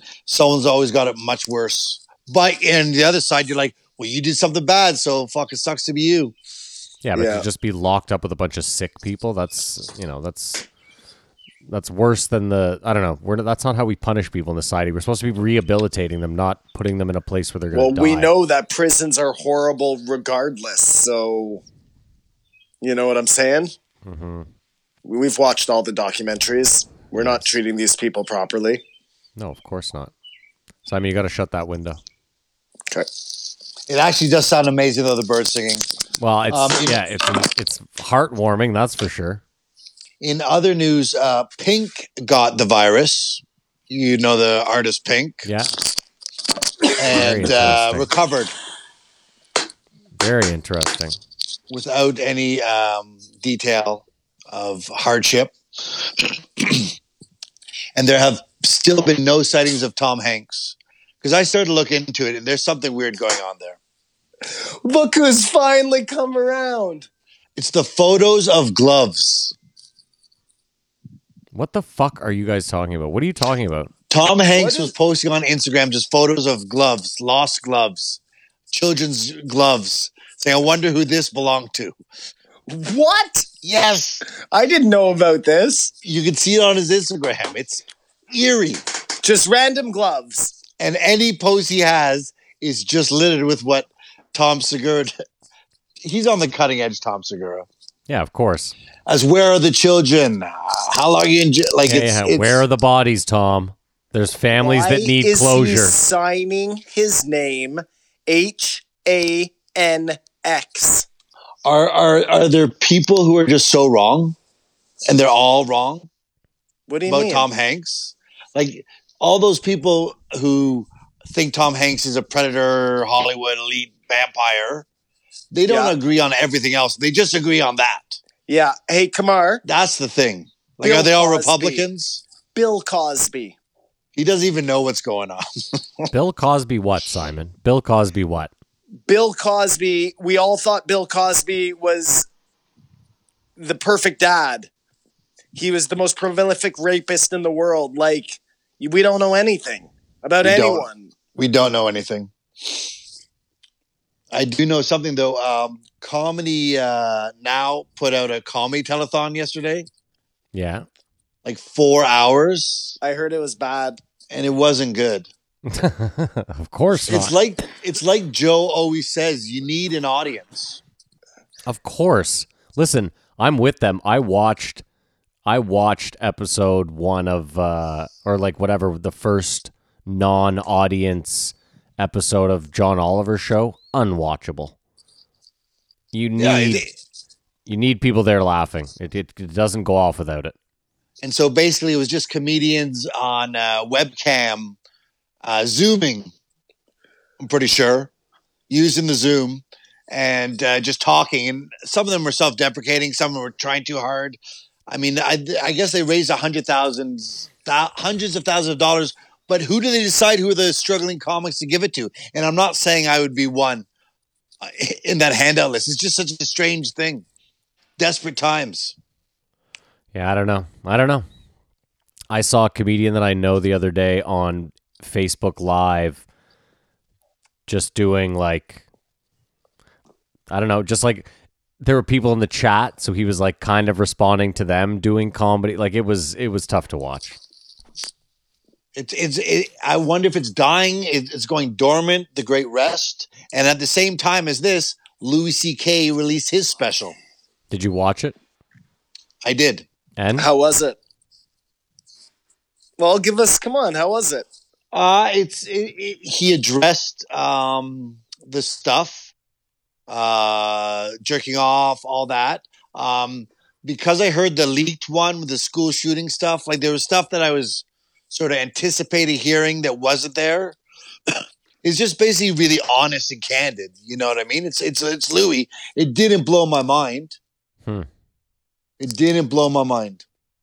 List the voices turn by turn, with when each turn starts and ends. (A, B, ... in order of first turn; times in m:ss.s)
0:00.2-0:06.3 A
0:07.0-0:10.6 B
0:07.1-0:07.4 C
0:11.6-0:18.3 B
0:17.7-0:21.6 C
0:22.8-0:23.7 C
0:24.0-0:24.5 B
0:25.0-0:28.8 C
0:29.4-0:30.1 B
0:30.8-0:32.0 B
0:33.9-0:35.9 A
0:36.2-0:39.4 B
0:36.5-0:37.0 A
0:40.2-0:45.5 A
0:45.4-0:45.7 B
0:47.0-0:48.5 A
0:47.1-0:48.1 B
0:50.2-0:51.2 B
0:51.7-0:56.9 A
0:57.9-1:03.8 A
1:04.5-1:07.1 C
1:07.6-1:09.5 A
1:11.5-1:13.9 B
1:14.1-1:18.2 A
1:14.5-1:14.9 C
1:18.7-1:22.0 A
1:22.7-1:23.5 C
1:23.6-1:24.2 A
1:24.3-1:25.9 C
1:26.0-1:28.8 A
1:29.2-1:30.5 C
1:30.8-1:35.1 A
1:36.0-1:37.7 A
1:38.1-1:38.7 B
1:39.0-1:42.6 A
1:41.8-1:46.0 B
1:44.6-1:51.1 C
1:51.6-1:54.4 A
1:55.1-1:56.1 A
1:56.9-1:57.5 C
1:57.1-2:04.8 A
2:05.5-2:08.2 A
2:05.7-2:05.9 C
2:08.5-2:09.6 C
2:09.6-2:12.2 A
2:10.8-2:11.8 C
2:12.5-2:13.6 C
2:14.1-2:16.1 A
2:16.1-2:18.5 B
2:19.1-2:22.3 C
2:23.6-2:24.7 C
2:25.5-2:31.1 C
2:30.4-2:32.8 A
2:34.3-2:39.9 A
2:40.5-2:40.8 B
2:41.4-2:43.0 A
2:43.0-2:44.0 C
2:44.3-2:45.3 A
2:45.7-2:47.3 B
2:47.1-2:50.8 A
2:51.6-2:54.8 B
2:55.4-3:04.7 B
3:06.1-3:06.8 B
3:06.4-3:06.9 A
3:07.6-3:10.5 B
3:11.2-3:14.8 A
3:15.4-3:16.3 A
3:17.4-3:18.1 A
3:18.7-3:33.8 A
3:34.6-3:37.2 A
3:38.0-3:39.0 A
3:40.1-3:41.2 B
3:42.3-3:46.2 B
3:47.7-3:48.8 B
3:50.5-3:51.3 B
3:51.8-3:57.4 B
3:58.9-4:07.2 A
4:07.7-4:08.3 B
4:09.4-4:09.9 A
4:10.2-4:10.5 B
4:10.4-4:11.0 C
4:13.0-4:14.5 C
4:14.9-4:19.3 A
4:20.1-4:30.8 A
4:31.3-4:37.4 A
4:39.0-4:40.2 A